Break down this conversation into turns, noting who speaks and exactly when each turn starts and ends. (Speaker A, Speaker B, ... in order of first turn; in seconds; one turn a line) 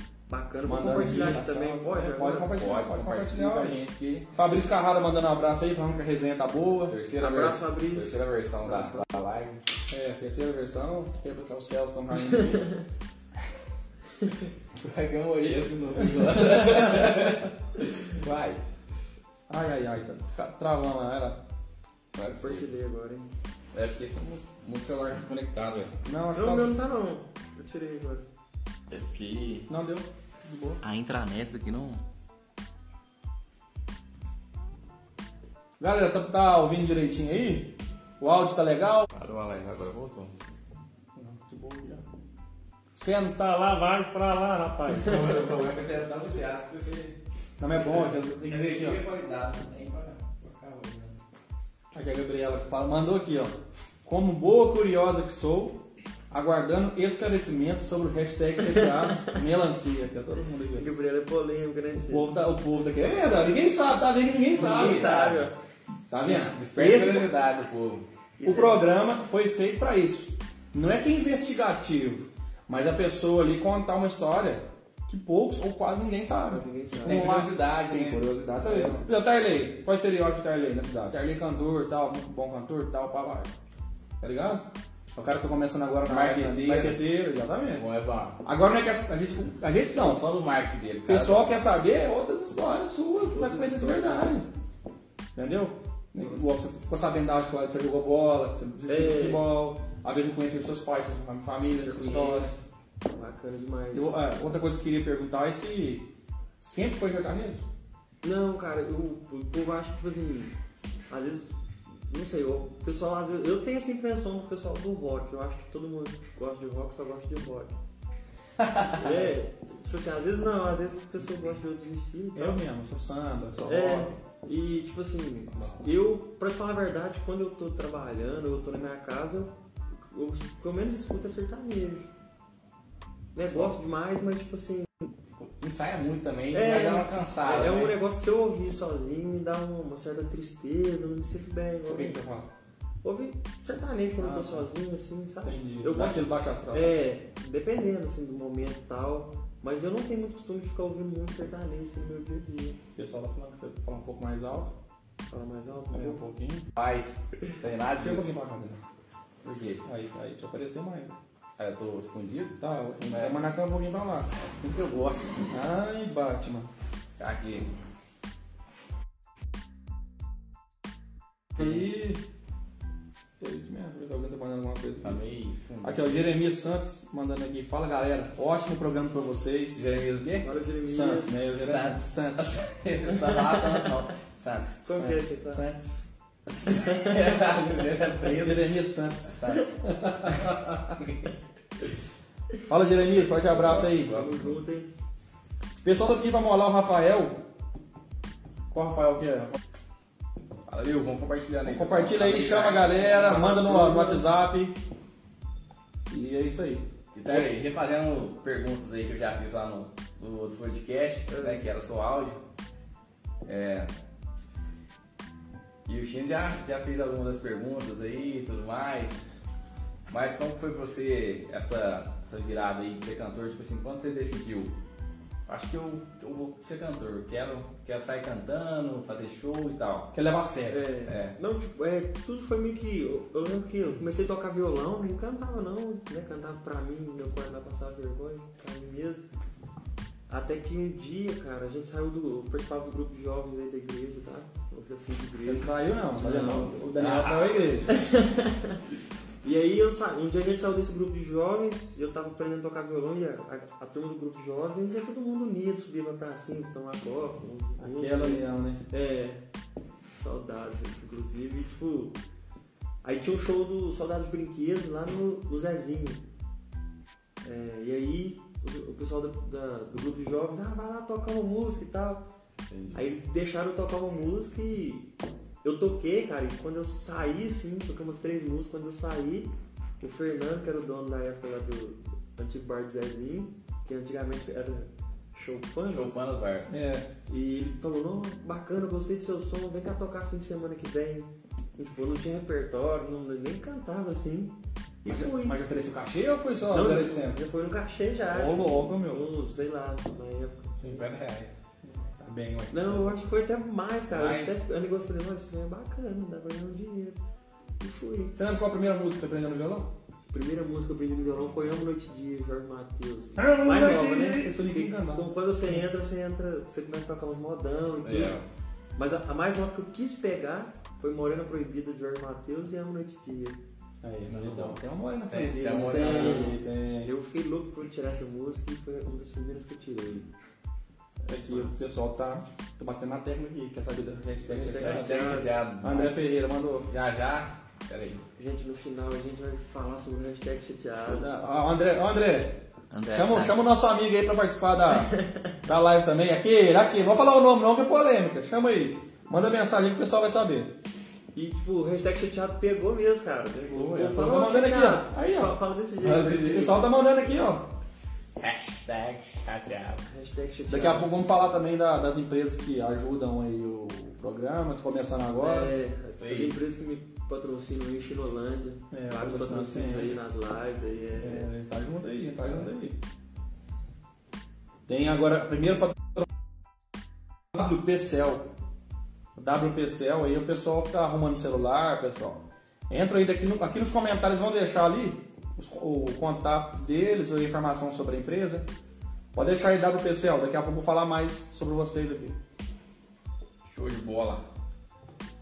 Speaker A: 0.3-2.6
Speaker B: 0.7-3.8
Speaker C: 2.5-4.3
Speaker B: 4.3-7.0
Speaker C: 6.9-9.6
Speaker A: 7.2-9.3
Speaker B: 9.9-12.8
Speaker C: 14.8-18.6
Speaker B: 19.5-21.4
Speaker C: 22.1-22.7
Speaker A: 22.3-23.3
Speaker C: 23.7-25.9
Speaker B: 26.1-26.8
Speaker A: 26.3-28.3
Speaker C: 28.9-29.7
Speaker B: 29.7-30.8
Speaker C: 30.8-32.0
Speaker B: 35.8-39.1
Speaker C: 39.1-40.3
Speaker B: 41.1-42.0
Speaker B: 42.9-45.4
Speaker C: 45.0-47.2
Speaker B: 47.6-49.0
Speaker C: 48.3-51.2
Speaker B: 51.9-53.5
Speaker B: 54.0-60.9
Speaker A: 60.7-62.3
Speaker B: 62.1-65.4
Speaker A: 64.6-65.5
Speaker C: 64.8-65.3
Speaker B: 66.1-67.3
Speaker C: 66.2-68.1
Speaker A: 68.4-68.9
Speaker B: 68.5-83.5
Speaker A: 76.5-77.4
Speaker C: 77.0-78.9
Speaker B: 84.2-87.8
Speaker C: 86.1-87.0
Speaker C: 87.7-88.4
Speaker B: 88.4-90.2
Speaker C: 90.0-91.6
Speaker B: 91.1-94.5
Speaker A: 93.3-94.4
Speaker B: 95.4-102.5
Speaker A: 96.2-96.5
Speaker A: 98.9-99.5
Speaker A: 101.8-104.1
Speaker B: 103.9-106.1
Speaker B: 106.6-107.7
Speaker A: 108.2-110.5
Speaker A: 111.1-117.7
Speaker C: 118.6-119.1
Speaker A: 118.8-122.6
Speaker B: 122.3-124.1
Speaker A: 123.7-129.5
Speaker A: 130.1-132.1
Speaker A: 133.3-134.9
Speaker C: 135.4-138.0
Speaker A: 136.5-142.2
Speaker B: 141.9-142.5
Speaker A: 143.0-152.8
Speaker B: 144.2-144.7
Speaker B: 145.4-147.0
Speaker B: 153.0-154.7
Speaker A: 155.3-156.2
Speaker B: 155.9-156.7
Speaker C: 156.8-158.3
Speaker B: 158.0-158.8
Speaker C: 159.4-159.8
Speaker B: 159.8-161.2
Speaker C: 161.6-163.4
Speaker B: 162.6-164.3
Speaker C: 164.3-165.5
Speaker B: 165.5-166.7
Speaker C: 167.2-167.7
Speaker B: 171.6-172.2
Speaker B: 173.4-175.2
Speaker C: 175.0-176.1
Speaker B: 175.8-179.8
Speaker C: 179.8-180.6
Speaker A: 180.4-181.6
Speaker B: 180.9-182.6
Speaker C: 181.5-184.9
Speaker A: 184.8-185.6
Speaker B: 184.9-185.9
Speaker C: 186.7-188.7
Speaker B: 188.2-190.9
Speaker C: 189.2-189.7
Speaker C: 190.3-191.3
Speaker B: 192.7-194.2
Speaker C: 193.1-194.6
Speaker A: 194.0-194.9
Speaker B: 195.8-197.4
Speaker B: 198.7-199.6
Speaker C: 200.7-203.6
Speaker B: 201.7-204.8
Speaker A: 203.1-204.2
Speaker B: 206.1-207.5
Speaker C: 207.1-212.4
Speaker A: 211.3-211.7
Speaker C: 213.4-213.9
Speaker C: 215.9-219.2
Speaker C: 220.1-224.7
Speaker C: 225.5-230.1
Speaker B: 230.1-230.8
Speaker A: 230.7-239.2
Speaker C: 231.1-231.3
Speaker A: 240.3-246.8
Speaker B: 245.4-247.9
Speaker C: 246.9-247.9
Speaker A: 247.8-248.8
Speaker A: 249.4-259.4
Speaker B: 257.8-258.8
Speaker A: 260.2-262.2
Speaker A: 263.0-266.2
Speaker A: 267.4-272.3
Speaker C: 272.7-273.0
Speaker A: 272.9-275.1
Speaker A: 275.6-286.2
Speaker C: 285.9-286.7
Speaker B: 286.7-287.1
Speaker A: 287.3-295.6
Speaker B: 295.1-297.4
Speaker A: 296.7-301.1
Speaker B: 298.3-299.3
Speaker C: 300.8-301.6
Speaker B: 301.8-303.2
Speaker A: 302.7-307.2
Speaker C: 304.1-304.6
Speaker A: 307.8-308.4
Speaker B: 308.4-309.9
Speaker A: 310.3-318.4
Speaker B: 313.4-315.8
Speaker C: 318.0-318.4
Speaker A: 319.0-323.6
Speaker B: 324.0-327.1
Speaker C: 324.2-326.5
Speaker A: 325.8-330.3
Speaker B: 331.3-336.9
Speaker A: 331.3-331.8
Speaker A: 334.5-335.6
Speaker C: 334.6-336.2
Speaker C: 336.9-338.2
Speaker A: 338.4-341.3
Speaker B: 341.1-342.6
Speaker C: 342.9-343.6
Speaker B: 343.1-350.7
Speaker A: 345.1-345.6
Speaker A: 351.4-356.9
Speaker B: 353.6-357.7
Speaker C: 358.4-360.0
Speaker A: 360.1-361.3
Speaker B: 360.7-365.7
Speaker A: 365.4-371.5
Speaker C: 366.1-366.6
Speaker B: 368.9-370.2
Speaker B: 371.2-373.0
Speaker B: 374.9-376.3
Speaker B: 377.5-378.5
Speaker B: 379.4-388.7
Speaker B: 389.3-392.4
Speaker C: 393.6-394.4